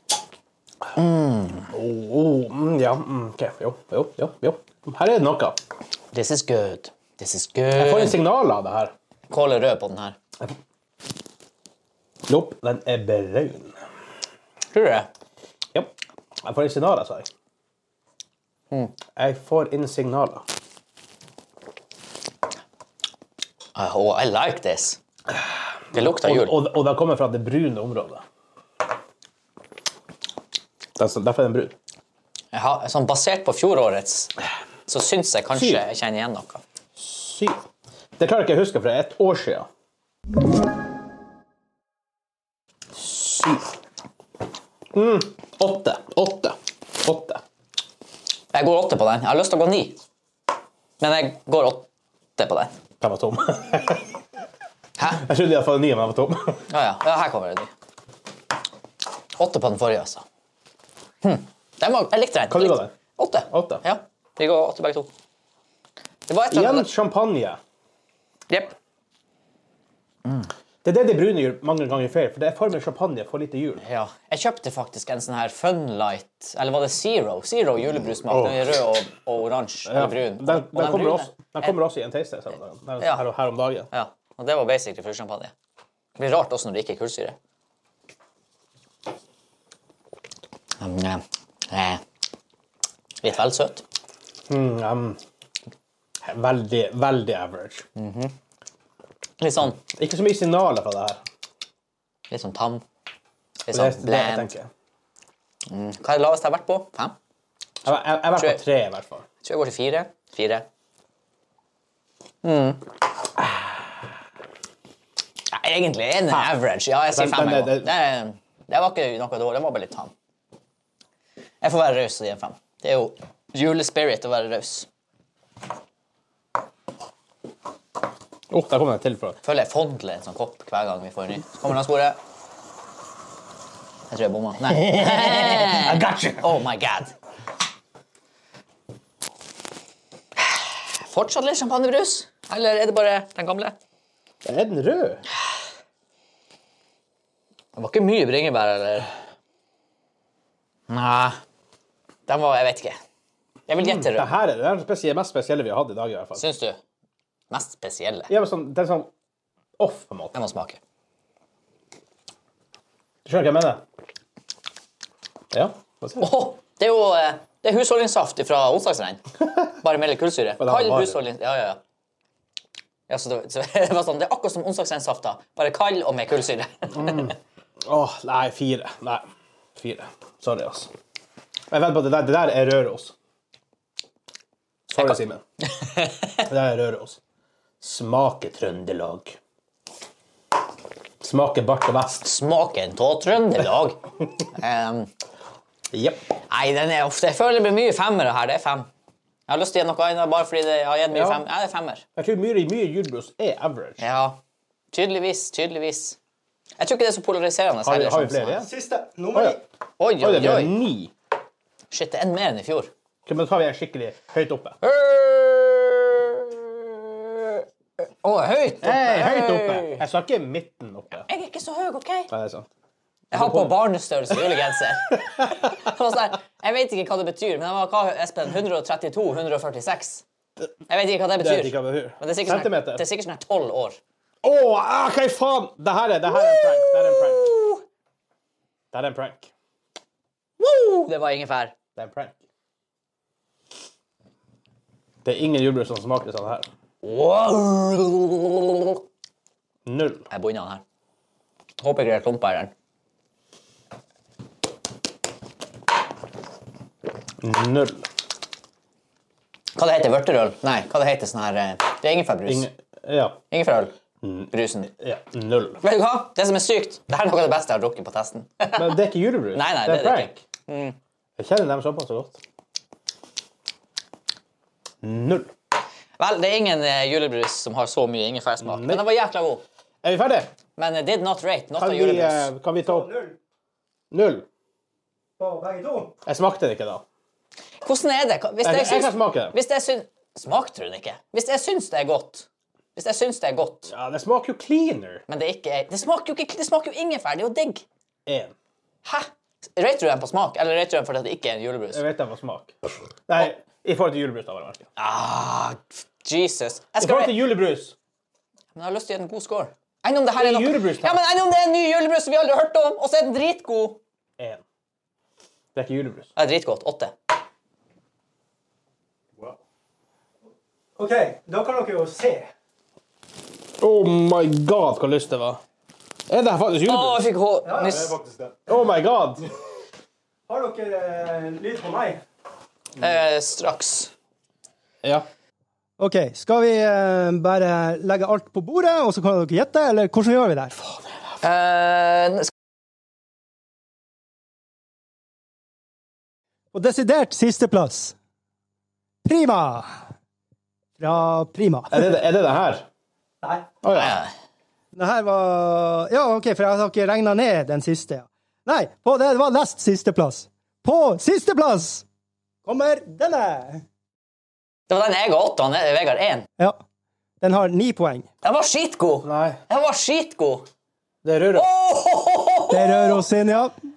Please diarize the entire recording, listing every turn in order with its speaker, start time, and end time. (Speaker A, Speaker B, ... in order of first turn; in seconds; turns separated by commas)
Speaker A: 1.0-1.7, Speaker B: 1.7-5.6, Speaker A: 6.1-8.2, Speaker B: 7.8-8.9, Speaker A: 9.3-10.2, Speaker B: 12.3-13.8, Speaker A: 14.7-15.1, Speaker B: 16.4-17.3, Speaker B: 19.2-20.4, Speaker A: 23.8-25.0, Speaker A: 25.9-26.6, Speaker B: 26.0-28.2, Speaker B: 31.0-31.8, Speaker A: 32.5-34.3, Speaker A: 34.9-36.6, Speaker B: 35.5-35.8, Speaker B: 37.0-37.6, Speaker B: 38.2-39.7, Speaker B: 43.1-43.5, Speaker B: 44.9-47.4, Speaker A: 48.5-50.0, Speaker A: 51.0-52.8, Speaker B: 53.0-54.2, Speaker A: 55.0-55.2, Speaker B: 55.1-56.6, Speaker A: 56.7-57.7, Speaker A: 59.4-60.2, Speaker A: 61.2-65.1, Speaker B: 62.5-62.9, Speaker B: 63.5-63.8, Speaker A: 66.3-66.9, Speaker B: 66.5-67.6, Speaker B: 70.8-73.8, Speaker A: 73.8-81.8, Speaker B: 78.3-78.7, Speaker B: 79.9-83.9, Speaker A: 83.9-85.5, Speaker A: 86.2-87.4, Speaker A: 90.8-92.0, Speaker A: 93.2-93.8, Speaker B: 94.5-95.2, Speaker B: 96.2-97.8, Speaker A: 98.0-98.3, Speaker A: 99.4-99.8, Speaker B: 100.0-101.2, Speaker A: 102.3-102.8, Speaker A: 103.7-104.5, Speaker B: 103.7-104.7, Speaker A: 105.7-107.2, Speaker B: 107.8-109.2, Speaker A: 108.3-108.6, Speaker A: 109.4-110.7, Speaker A: 112.4-112.8, Speaker A: 115.5-120.1, Speaker B: 116.3-116.5, Speaker B: 117.1-117.9, Speaker A: 121.6-124.9, Speaker B: 128.5-129.4, Speaker A: 129.4-132.2, Speaker A: 134.1-137.1, Speaker B: 134.7-136.6, Speaker A: 140.6-143.8, Speaker B: 144.4-145.2, Speaker A: 147.8-149.1, Speaker A: 150.9-151.4, Speaker A: 152.3-153.0, Speaker A: 153.7-154.3, Speaker B: 153.8-156.4, Speaker A: 156.4-156.8, Speaker A: 157.5-158.3, Speaker B: 158.3-159.1, Speaker B: 159.8-160.4, Speaker A: 160.3-160.8, Speaker B: 163.2-163.8, Speaker B: 165.5-166.3, Speaker A: 166.2-171.8, Speaker B: 170.6-171.2, Speaker A: 173.1-177.3, Speaker B: 176.9-179.2, Speaker B: 179.8-180.9, Speaker B: 181.7-183.1, Speaker B: 184.9-185.4, Speaker A: 185.8-186.4, Speaker B: 186.5-187.2, Speaker B: 187.8-189.4, Speaker B: 191.2-192.2, Speaker A: 192.2-194.0, Speaker A: 194.5-195.1, Speaker B: 195.9-196.2, Speaker A: 196.5-198.9, Speaker A: 199.5-202.0, Speaker B: 201.1-201.4, Speaker B: 202.2-204.0, Speaker A: 204.0-204.4, Speaker A: 204.9-206.2, Speaker A: 206.8-208.6, Speaker B: 207.8-208.7, Speaker C: 208.6-209.6, Speaker B: 209.3-209.6, Speaker A: 210.0-210.8, Speaker B: 210.2-211.1, Speaker A: 211.9-212.9, Speaker B: 213.3-214.8, Speaker A: 214.8-217.7, Speaker A: 218.2-220.0, Speaker B: 218.8-221.3, Speaker A: 221.2-222.3, Speaker B: 222.3-222.7, Speaker A: 223.3-230.2, Speaker B: 223.3-224.6, Speaker A: 230.9-234.0, Speaker B: 231.4-233.0, Speaker B: 234.4-237.5, Speaker A: 236.3-237.8, Speaker B: 238.9-239.5, Speaker A: 240.6-241.7, Speaker B: 242.0-242.4, Speaker B: 245.2-246.7, Speaker A: 247.0-249.0, Speaker B: 249.9-250.2, Speaker A: 250.3-250.8, Speaker A: 251.8-252.7, Speaker B: 257.4-258.1, Speaker A: 259.8-262.7, Speaker B: 262.5-263.4, Speaker A: 263.5-263.9, Speaker B: 264.2-265.8, Speaker A: 264.5-264.9, Speaker A: 265.8-269.0, Speaker B: 268.8-270.4, Speaker A: 269.5-271.0, Speaker B: 271.4-272.4, Speaker B: 275.0-275.5, Speaker A: 276.2-279.6, Speaker B: 278.6-279.1, Speaker B: 280.0-280.5, Speaker A: 280.8-282.5, Speaker B: 281.8-283.1, Speaker C: 282.8-283.4, Speaker B: 284.1-284.4, Speaker C: 285.4-286.1, Speaker B: 286.3-287.0, Speaker A: 287.8-293.9, Speaker B: 288.6-289.6, Speaker B: 293.9-295.2, Speaker A: 295.3-297.9, Speaker B: 298.3-298.5, Speaker A: 299.1-302.0, Speaker B: 301.9-302.7, Speaker B: 303.3-304.9, Speaker A: 305.0-307.4, Speaker B: 307.0-307.9, Speaker A: 308.7-314.0, Speaker B: 310.4-311.2, Speaker B: 314.4-314.6, Speaker B: 315.8-316.3, Speaker A: 316.4-317.1, Speaker C: 321.0-322.5, Speaker B: 323.8-325.6, Speaker B: 326.3-327.3, Speaker A: 326.9-328.2, Speaker C: 327.7-328.2, Speaker B: 328.7-329.5, Speaker C: 330.5-332.2, Speaker A: 333.0-334.1, Speaker C: 336.0-340.8, Speaker B: 340.8-341.1, Speaker A: 341.4-342.5, Speaker C: 346.7-348.1, Speaker C: 349.2-349.9, Speaker C: 351.0-352.1, Speaker B: 351.9-352.9, Speaker C: 353.4-353.7, Speaker B: 353.8-354.2, Speaker A: 353.9-354.3, Speaker C: 354.9-362.1, Speaker C: 362.6-363.8, Speaker A: 364.9-366.5, Speaker C: 367.4-368.3, Speaker A: 368.4-370.7, Speaker B: 369.2-369.6, Speaker B: 371.2-371.7, Speaker A: 371.5-373.2, Speaker C: 372.7-373.7